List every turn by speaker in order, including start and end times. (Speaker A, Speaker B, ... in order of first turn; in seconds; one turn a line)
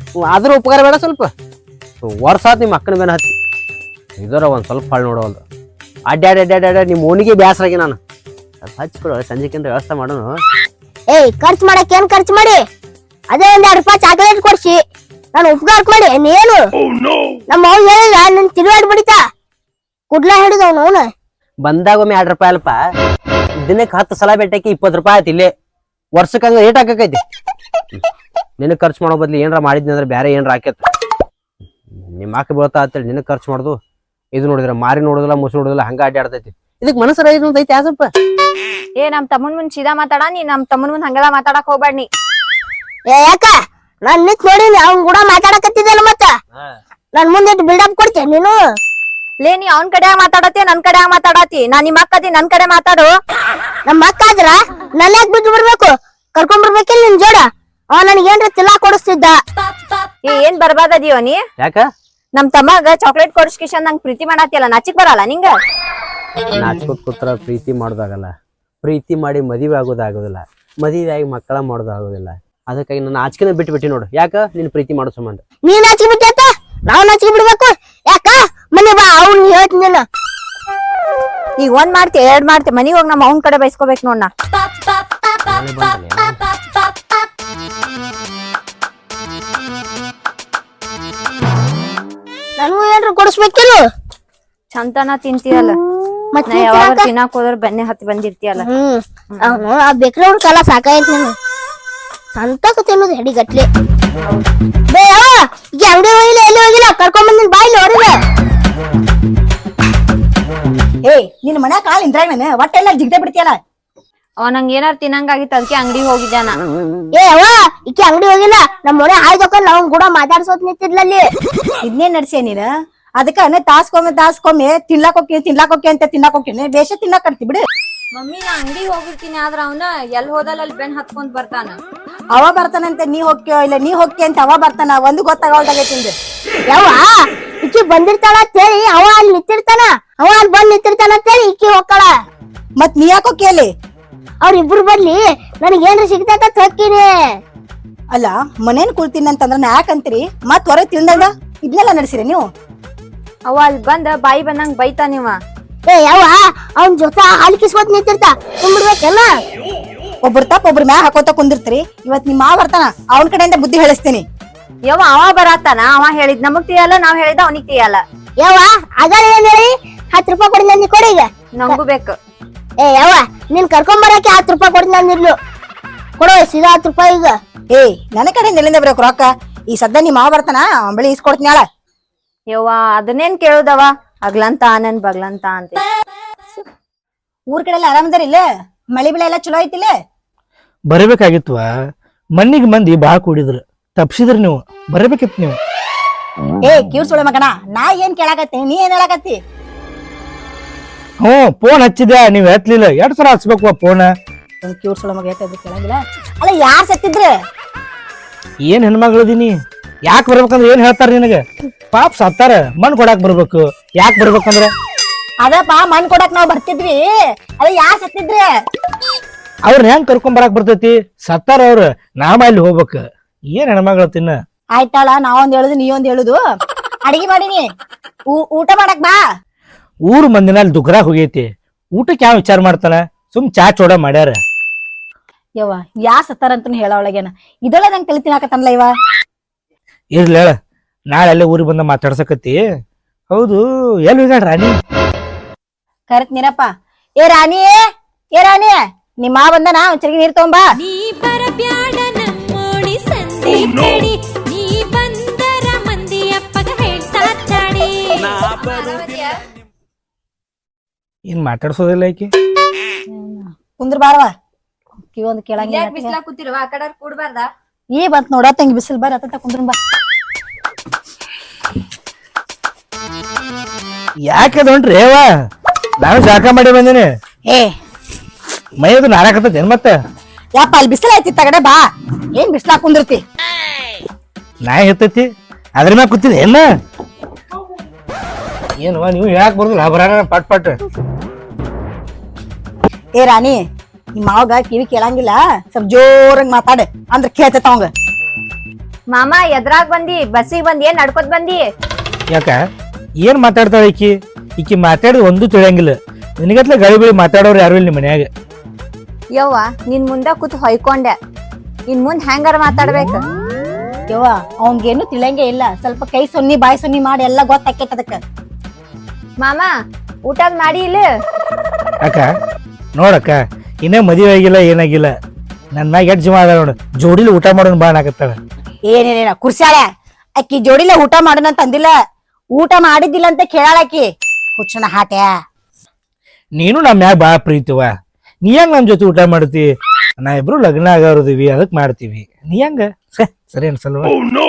Speaker A: 0.3-1.3
Speaker A: 2.0-3.3
Speaker A: 4.2-5.4
Speaker A: 6.1-8.0
Speaker A: 8.6-10.3
Speaker B: 11.1-12.6
Speaker B: 13.3-14.8
Speaker B: 15.3-16.6
Speaker B: 17.5-19.2
Speaker B: 20.1-21.1
Speaker A: 21.6-22.8
Speaker A: 23.7-25.5
Speaker A: 26.2-27.2
Speaker A: 28.6-30.8
Speaker A: 32.2-33.8
Speaker A: 34.4-38.1
Speaker C: 39.0-42.1
Speaker B: 43.1-46.3
Speaker B: 47.1-48.6
Speaker C: 49.4-53.1
Speaker B: 53.9-59.4
Speaker C: 60.3-61.4
Speaker A: 61.6-61.9
Speaker C: 62.4-65.5
Speaker A: 66.5-68.3
Speaker A: 68.8-75.4
Speaker B: 75.6-80.0
Speaker C: 81.6-84.3
Speaker A: 85.4-86.4
Speaker B: 92.6-93.9
Speaker C: 94.7-95.8
Speaker B: 96.3-97.1
Speaker C: 96.5-98.7
Speaker B: 98.6-101.3
Speaker B: 102.3-103.7
Speaker B: 104.9-108.2
Speaker D: 111.0-113.6
Speaker C: 114.4-116.6
Speaker B: 117.1-121.3
Speaker D: 121.8-127.6
Speaker C: 128.2-131.8
Speaker D: 132.3-136.2
Speaker B: 136.7-137.1
Speaker B: 137.6-142.1
Speaker D: 142.8-143.7
Speaker B: 144.4-147.1
Speaker D: 148.1-152.5
Speaker C: 153.5-155.4
Speaker B: 155.9-159.3
Speaker D: 160.2-164.2
Speaker C: 164.9-168.0
Speaker B: 168.4-171.3
Speaker C: 171.6-172.2
Speaker B: 172.8-175.4
Speaker B: 176.2-177.4
Speaker D: 177.7-181.6
Speaker C: 182.5-185.8
Speaker D: 187.5-188.4
Speaker D: 188.9-189.9
Speaker E: 190.9-191.7
Speaker E: 192.4-195.6
Speaker D: 196.6-199.4
Speaker E: 201.2-204.1
Speaker D: 204.6-207.3
Speaker E: 208.7-209.5
Speaker E: 210.1-214.7
Speaker D: 215.4-217.0
Speaker D: 217.6-218.5
Speaker E: 219.7-224.4
Speaker D: 224.8-226.4
Speaker D: 227.1-227.7
Speaker D: 228.3-229.2
Speaker E: 230.1-234.4
Speaker D: 235.6-238.9
Speaker E: 240.1-240.6
Speaker E: 241.1-242.6
Speaker E: 243.3-244.8
Speaker D: 246.1-247.8
Speaker D: 248.3-250.7
Speaker F: 250.8-258.5
Speaker C: 258.3-259.3
Speaker E: 261.3-262.3
Speaker D: 263.1-264.3
Speaker D: 265.0-266.2
Speaker C: 265.6-267.5
Speaker D: 267.9-269.8
Speaker E: 274.2-275.3
Speaker E: 276.0-277.1
Speaker E: 278.8-279.9
Speaker D: 280.6-281.8
Speaker D: 282.4-283.2
Speaker E: 284.6-286.6
Speaker E: 288.8-290.8
Speaker D: 293.2-293.6
Speaker D: 294.2-297.9
Speaker C: 299.1-301.6
Speaker E: 302.3-302.6
Speaker E: 303.2-308.3
Speaker C: 309.4-311.2
Speaker C: 311.9-313.2
Speaker D: 314.1-318.2
Speaker C: 319.4-319.7
Speaker C: 320.3-321.1
Speaker E: 322.0-322.3
Speaker E: 323.0-325.1
Speaker E: 325.7-328.4
Speaker D: 328.9-329.9
Speaker D: 330.4-331.9
Speaker D: 332.6-334.1
Speaker D: 334.6-335.3
Speaker E: 336.6-337.9
Speaker E: 338.4-339.7
Speaker E: 340.2-344.2